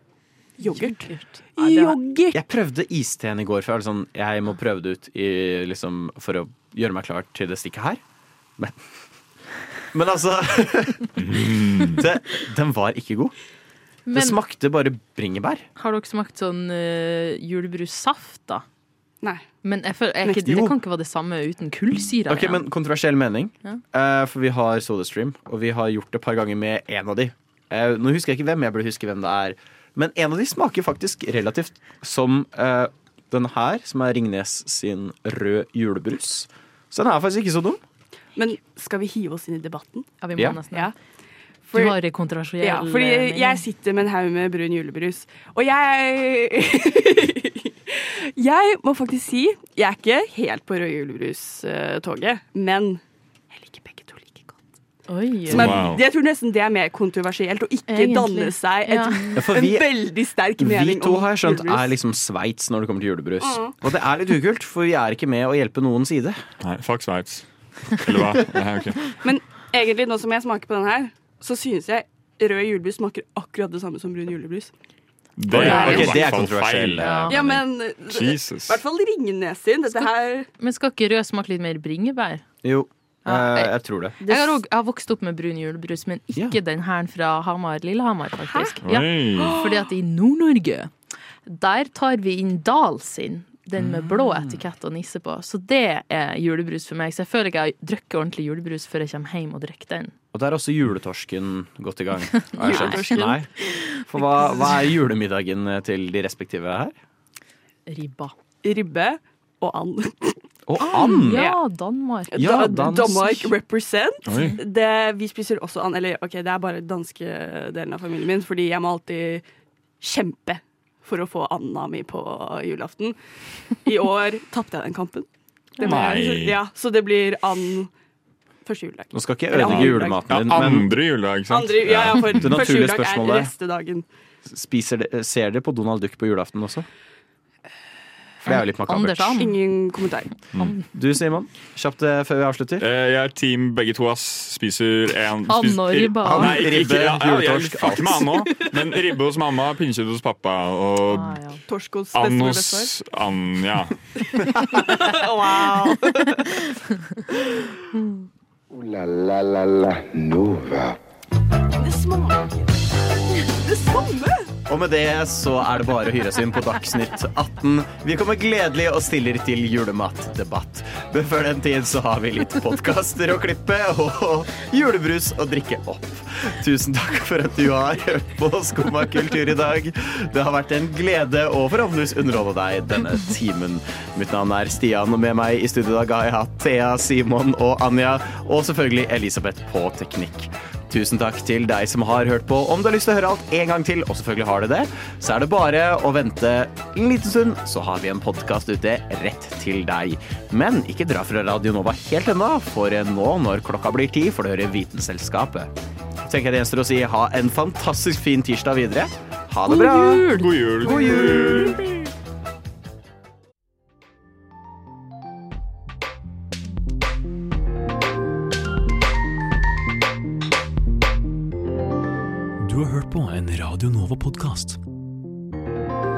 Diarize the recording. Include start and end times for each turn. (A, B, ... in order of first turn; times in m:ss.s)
0:00.6-0:02.4 A
0:00.6-0:02.0 B
0:02.3-0:08.0 C
0:09.9-0:13.3 C
0:11.2-0:12.0 D
0:14.0-0:14.4 B
0:14.1-0:15.7 C
0:15.8-0:18.6 B
0:19.6-0:22.6 B
0:20.2-0:20.8 C
0:22.3-0:37.8 C
0:38.4-0:40.1 A
0:40.2-0:40.9 B
0:41.7-0:42.0 A
0:41.7-0:43.6 B
0:42.6-0:54.6 A
0:55.1-0:55.8 B
0:55.5-1:01.9 A
0:55.5-0:56.0 C
0:55.5-0:56.0 D
0:57.9-0:59.4 B
0:59.3-1:00.0 C
1:00.6-1:06.4 C
1:03.4-1:03.7 A
1:06.6-1:09.2 D
1:09.2-1:14.7 A
1:15.4-1:18.8 D
1:15.5-1:17.6 C
1:15.6-1:16.3 B
1:15.6-1:16.3 A
1:17.0-1:17.4 B
1:17.3-1:20.5 A
1:20.6-1:22.4 B
1:22.6-1:24.2 C
1:23.2-1:30.9 B
1:24.2-1:24.6 A
1:28.5-1:28.8 A
1:28.8-1:29.6 D
1:29.4-1:29.7 A
1:31.5-1:40.1 B
1:33.8-1:34.6 C
1:40.3-1:46.9 C
1:42.5-1:43.3 B
1:42.6-1:43.4 A
1:47.9-1:48.3 B
1:48.6-1:50.4 A
1:50.7-1:51.5 C
1:50.8-1:53.4 B
1:51.2-1:51.6 A
1:52.3-1:59.4 A
1:52.3-1:53.4 C
1:54.3-1:54.6 D
1:54.3-1:54.6 B
2:00.0-2:03.2 A
2:03.8-2:05.3 A
2:05.8-2:06.6 D
2:05.8-2:07.9 A
2:08.6-2:10.4 A
2:09.1-2:10.9 C
2:09.6-2:12.6 D
2:11.5-2:14.0 A
2:12.3-2:13.5 C
2:14.4-2:16.8 C
2:18.4-2:19.4 C
2:18.4-2:19.6 B
2:19.4-2:20.3 A
2:20.6-2:20.8 B
2:20.9-2:22.9 C
2:22.8-2:31.4 D
2:25.5-2:26.6 B
2:26.2-2:28.3 C
2:28.6-2:29.0 A
2:31.1-2:31.6 B
2:31.7-2:32.9 A
2:32.1-2:34.8 D
2:34.6-2:36.7 A
2:37.3-2:37.7 A
2:38.7-2:41.0 E
2:41.8-2:44.5 A
2:44.7-3:25.7 C
3:26.2-3:30.3 C
3:29.6-3:31.8 B
3:30.3-3:31.9 D
3:30.8-3:31.8 C
3:42.6-3:44.8 F